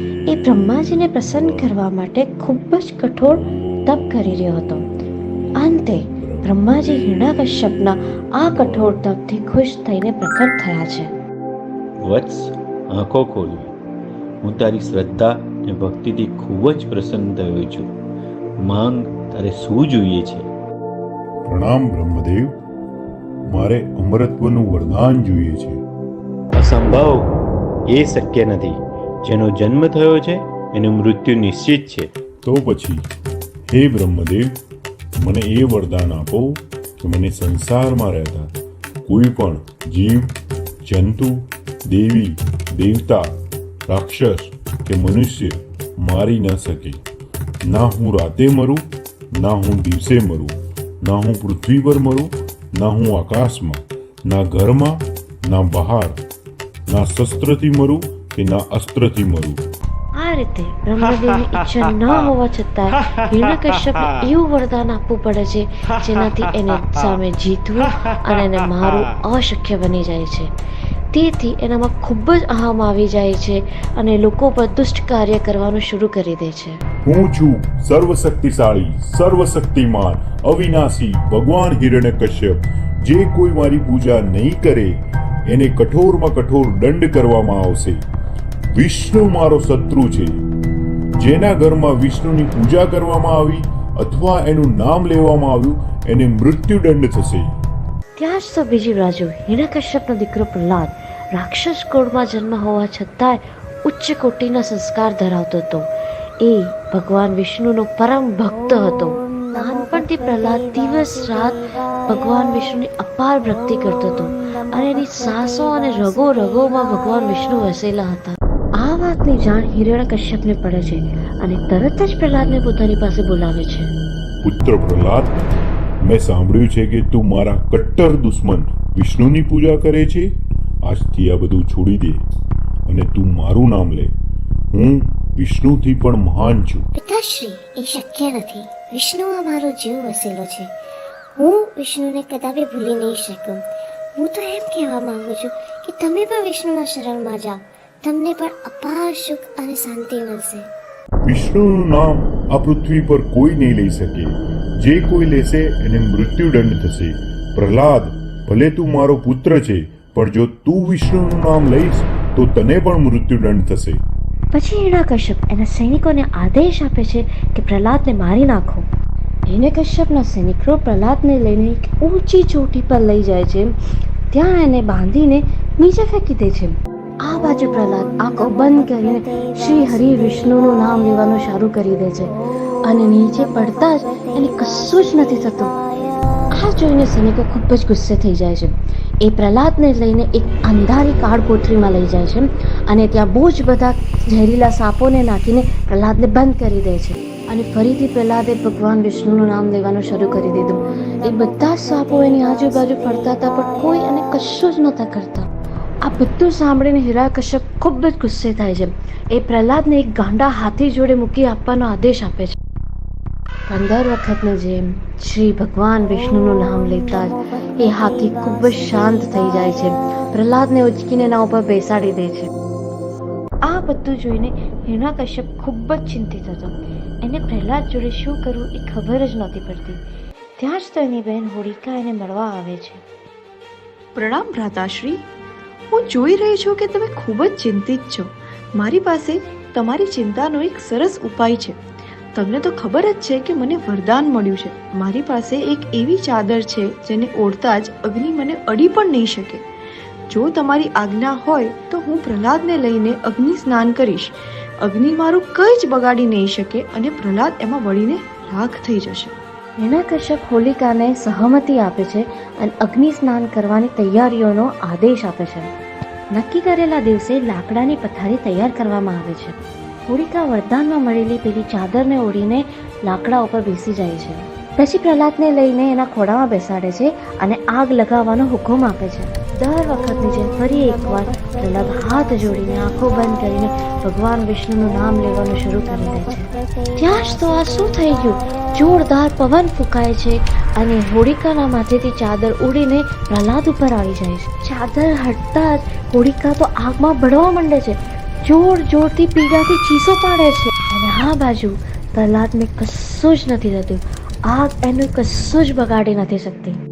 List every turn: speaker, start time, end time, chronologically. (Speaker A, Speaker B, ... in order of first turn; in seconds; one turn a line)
Speaker A: 0.3-4.8
Speaker A: 5.6-11.1
Speaker B: 6.2-6.5
Speaker B: 8.6-8.9
Speaker C: 12.0-13.8
Speaker C: 14.4-17.9
Speaker C: 18.6-20.5
Speaker B: 21.5-22.5
Speaker B: 23.5-25.8
Speaker C: 26.5-27.4
Speaker C: 27.9-32.1
Speaker B: 32.4-33.0
Speaker B: 33.7-34.5
Speaker B: 35.2-38.5
Speaker B: 39.1-40.3
Speaker B: 40.9-43.3
Speaker B: 43.9-47.0
Speaker B: 47.6-56.2
Speaker B: 56.9-59.6
Speaker A: 60.2-70.5
Speaker A: 71.1-76.8
Speaker B: 77.1-84.9
Speaker B: 85.5-88.0
Speaker B: 88.8-90.4
Speaker B: 91.2-97.5
Speaker A: 98.2-105.9
Speaker A: 106.4-123.9
Speaker B: 124.4-125.4
Speaker B: 126.0-130.3
Speaker B: 130.9-132.2
Speaker B: 132.9-134.1
Speaker B: 134.7-136.9
Speaker D: 137.0-140.7
Speaker D: 141.4-150.7
Speaker B: 151.2-164.0
Speaker A: 164.5-168.8
Speaker A: 169.5-173.7
Speaker A: 174.3-182.3
Speaker A: 182.8-185.8
Speaker A: 186.5-205.5
Speaker A: 206.0-212.6
Speaker A: 213.7-222.5
Speaker A: 223.7-230.0
Speaker A: 230.6-233.0
Speaker E: 234.2-235.2
Speaker E: 235.9-241.8
Speaker E: 242.3-249.6
Speaker E: 250.3-259.4
Speaker A: 259.8-265.7
Speaker A: 266.3-269.5
Speaker A: 270.1-306.8